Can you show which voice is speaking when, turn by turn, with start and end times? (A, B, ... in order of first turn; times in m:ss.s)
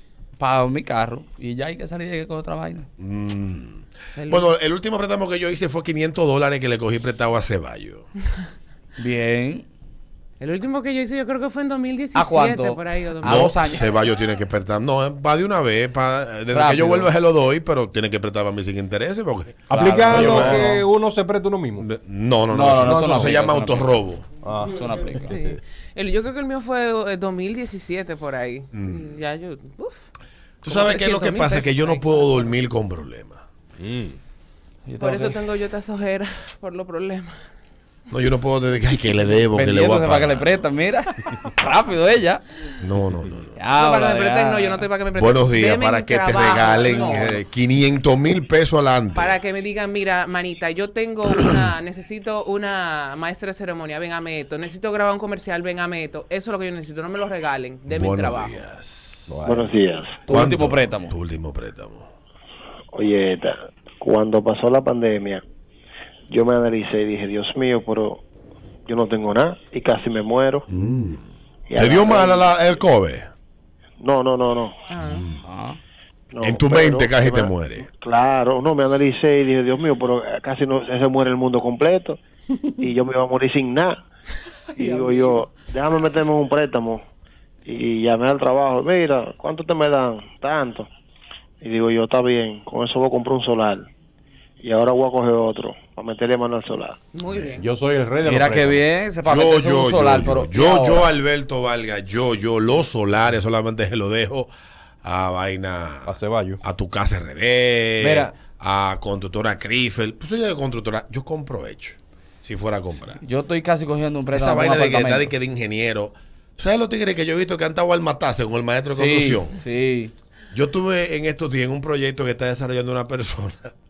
0:00.4-0:02.9 A
0:03.0-0:08.1 B
0:04.2-0:04.5 C
0:09.0-0:09.6 A
0:10.4-0:13.4 C
0:12.1-0:13.9 A
0:13.2-0:20.7 B
0:16.5-0:17.1 A
0:19.7-0:21.9 D
0:19.7-0:20.8 A
0:21.8-0:24.2 B
0:22.5-0:24.0 A
0:24.4-0:25.6 D
0:24.7-0:25.3 A
0:25.2-0:30.1 C
0:28.7-0:29.2 B
0:30.6-0:33.4 B
0:30.6-0:32.5 C
0:33.8-0:34.2 D
0:34.8-0:35.4 A
0:35.0-0:37.4 C
0:38.1-0:40.6 B
0:39.5-0:42.4 A
0:42.8-0:43.6 B
0:43.6-0:44.8 A
0:43.8-0:47.4 C
0:45.2-0:49.4 B
0:49.2-0:58.6 C
0:57.9-0:59.3 B
0:59.3-0:59.7 D
0:59.4-1:00.2 E
1:00.3-1:01.1 A
1:00.3-1:02.1 B
1:02.9-1:05.4 E
1:06.3-1:08.2 E
1:08.8-1:10.6 E
1:10.7-1:11.2 B
1:11.7-1:12.5 E
1:11.8-1:13.3 B
1:14.0-1:14.8 E
1:14.9-1:15.2 C
1:15.0-1:15.4 B
1:15.4-1:15.8 A
1:16.3-1:22.2 E
1:16.4-1:17.9 B
1:22.8-1:24.0 E
1:24.8-1:27.0 E
1:27.6-1:30.9 E
1:31.6-1:33.9 E
1:34.6-1:37.0 E
1:37.1-1:37.7 C
1:37.6-1:38.8 D
1:38.2-1:41.1 A
1:39.2-1:44.5 B
1:45.0-1:46.1 B
1:46.0-1:46.6 D
1:46.6-1:53.2 B
1:48.0-1:48.3 D
1:53.2-1:55.3 A
1:54.3-1:59.6 B
1:58.9-2:00.1 A
2:00.5-2:03.7 B